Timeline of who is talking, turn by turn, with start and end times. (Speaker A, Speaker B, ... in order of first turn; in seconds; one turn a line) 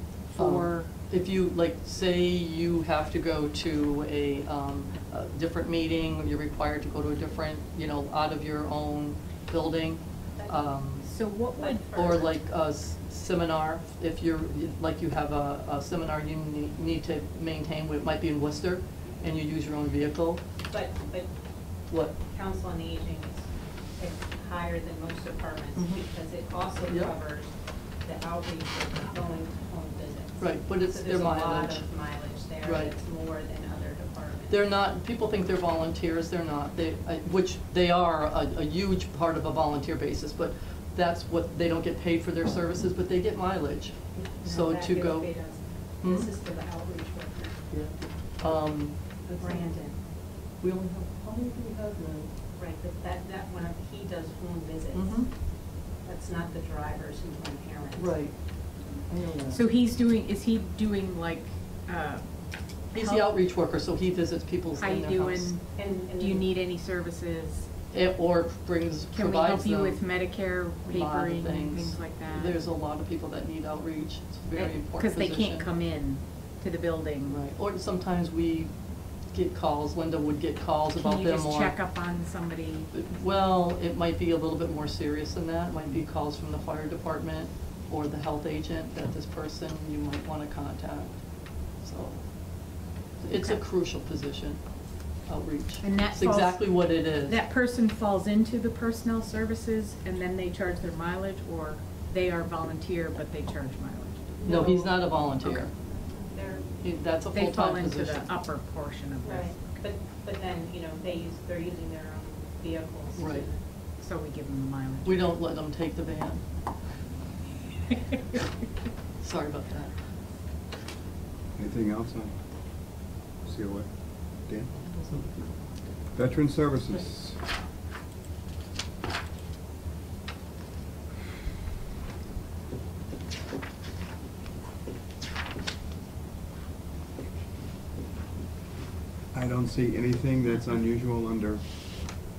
Speaker A: 0.3-0.9
Speaker B: 0.3-11.1
Speaker A: 11.0-11.9
Speaker C: 11.6-12.3
Speaker B: 11.9-20.4
Speaker C: 20.7-21.3
Speaker B: 21.9-22.1
Speaker C: 22.3-27.5
Speaker B: 25.8-26.0
Speaker B: 26.8-27.1
Speaker C: 28.0-34.6
Speaker B: 30.4-31.9
Speaker B: 32.6-32.9
Speaker B: 34.5-45.3
Speaker C: 44.1-47.6
Speaker B: 46.0-46.3
Speaker B: 47.7-49.6
Speaker C: 49.4-50.0
Speaker B: 50.6-52.3
Speaker C: 52.5-55.3
Speaker B: 54.9-55.3
Speaker C: 56.0-58.1
Speaker B: 58.0-58.4
Speaker B: 59.0-59.6
Speaker A: 59.5-62.3
Speaker B: 62.9-65.5
Speaker A: 62.9-63.3
Speaker A: 64.8-67.7
Speaker C: 65.8-66.5
Speaker B: 67.9-70.0
Speaker A: 69.1-72.6
Speaker B: 70.9-75.7
Speaker A: 74.5-77.4
Speaker B: 77.2-78.7
Speaker B: 79.3-81.8
Speaker A: 80.9-82.9
Speaker B: 82.9-91.2
Speaker B: 91.8-92.3
Speaker B: 93.2-94.6
Speaker A: 93.3-93.6
Speaker B: 95.3-97.4
Speaker A: 95.8-105.7
Speaker C: 104.4-104.8
Speaker B: 104.5-105.7
Speaker C: 106.3-106.7
Speaker B: 106.8-108.3
Speaker A: 107.3-109.8
Speaker C: 109.2-113.6
Speaker B: 113.2-113.5
Speaker A: 114.0-115.3
Speaker B: 115.0-116.4
Speaker A: 117.9-118.4
Speaker B: 119.2-120.0
Speaker D: 121.5-122.3
Speaker D: 123.4-124.7
Speaker B: 124.8-125.7
Speaker D: 126.1-127.4
Speaker D: 139.3-141.6